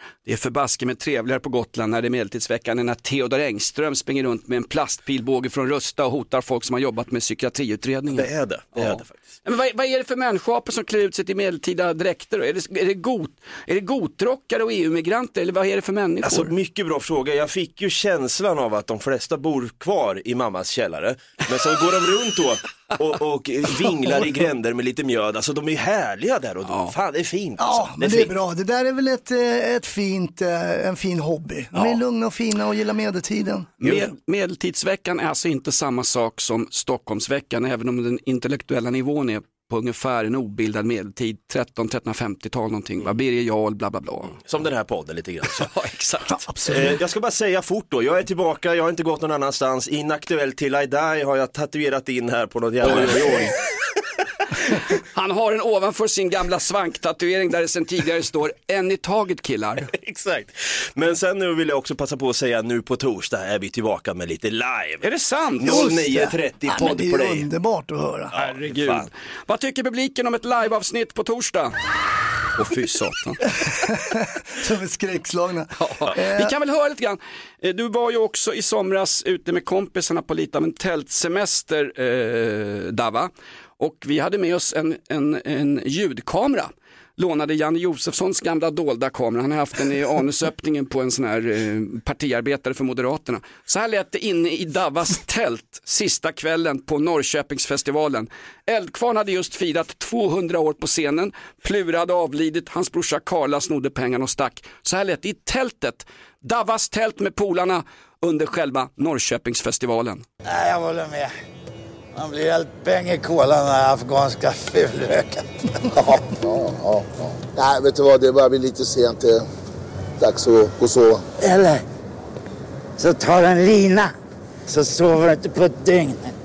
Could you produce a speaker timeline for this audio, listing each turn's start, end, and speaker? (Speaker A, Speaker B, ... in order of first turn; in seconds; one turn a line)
Speaker A: 0.2-16.5
Speaker B: 8.1-9.2
Speaker B: 16.2-28.3
Speaker A: 26.7-26.9
Speaker C: 27.6-33.7
Speaker A: 33.8-44.4
Speaker B: 44.4-45.7
Speaker A: 45.5-46.4
Speaker C: 46.4-47.0
Speaker B: 46.7-53.5
Speaker A: 52.8-53.5
Speaker A: 54.7-59.9
Speaker B: 59.9-65.0
Speaker A: 65.0-66.0
Speaker B: 65.6-67.5
Speaker C: 65.6-68.3
Speaker B: 68.3-69.1
Speaker A: 68.3-71.8
Speaker A: 72.5-73.5
Speaker C: 73.6-76.5
Speaker A: 75.8-110.2
Speaker D: 110.4-111.3
Speaker D: 112.1-115.8
Speaker E: 116.0-119.4
Speaker E: 120.2-121.2
Speaker D: 121.4-121.8
Speaker D: 123.0-124.1
Speaker D: 124.7-126.3